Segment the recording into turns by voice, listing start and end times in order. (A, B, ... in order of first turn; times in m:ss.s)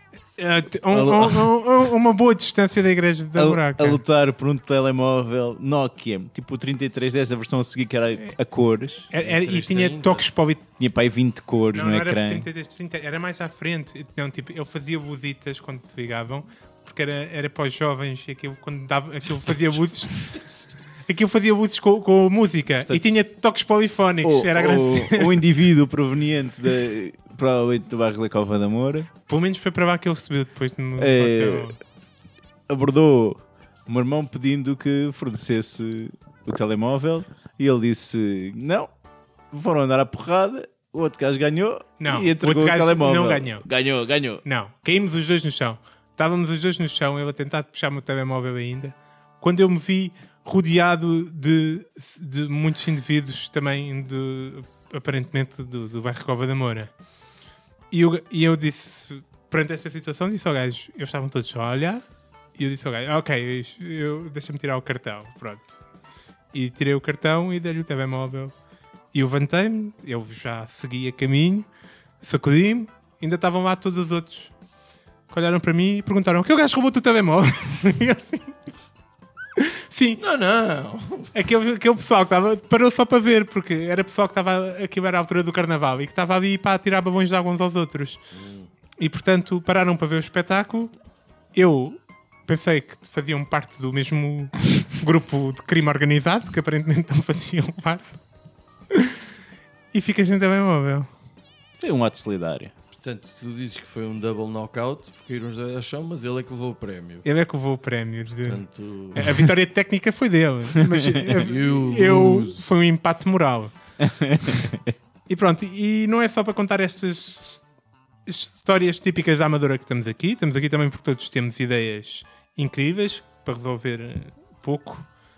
0:00.4-0:04.0 A
0:00.9-0:01.5 B
0:03.4-0:09.1 B
0:09.1-0:10.6 A
0:09.1-0:10.2 C
0:10.8-0:12.5 B
0:11.7-0:20.4 A
0:21.1-0:25.4 A
0:22.8-0:23.2 B
0:24.2-0:29.1 B
0:29.3-0:31.8 A
0:31.0-0:31.7 B
0:32.7-0:38.9 B
0:39.5-0:44.4 B
0:42.0-0:43.6 A
0:44.4-0:56.9 A
0:57.9-1:02.0 A
1:02.6-1:05.8 A
1:06.5-1:08.5 A
1:09.1-1:11.7 A
1:12.2-1:14.5 A
1:15.3-1:18.6 A
1:19.6-1:20.2 A
1:20.2-1:21.3 C
1:21.3-1:28.2 A
1:28.3-1:28.7 C
1:29.0-1:30.9 A
1:31.5-1:38.2 A
1:38.9-1:39.2 A
1:39.9-1:41.1 A
1:41.8-1:42.7 B
1:42.9-1:47.2 C
1:47.2-1:48.6 A
1:48.4-1:49.5 C
1:49.1-1:53.7 A
1:50.8-1:51.3 B
1:51.3-1:52.6 C
1:54.0-1:54.9 B
1:55.3-1:57.6 A
1:58.2-2:05.1 A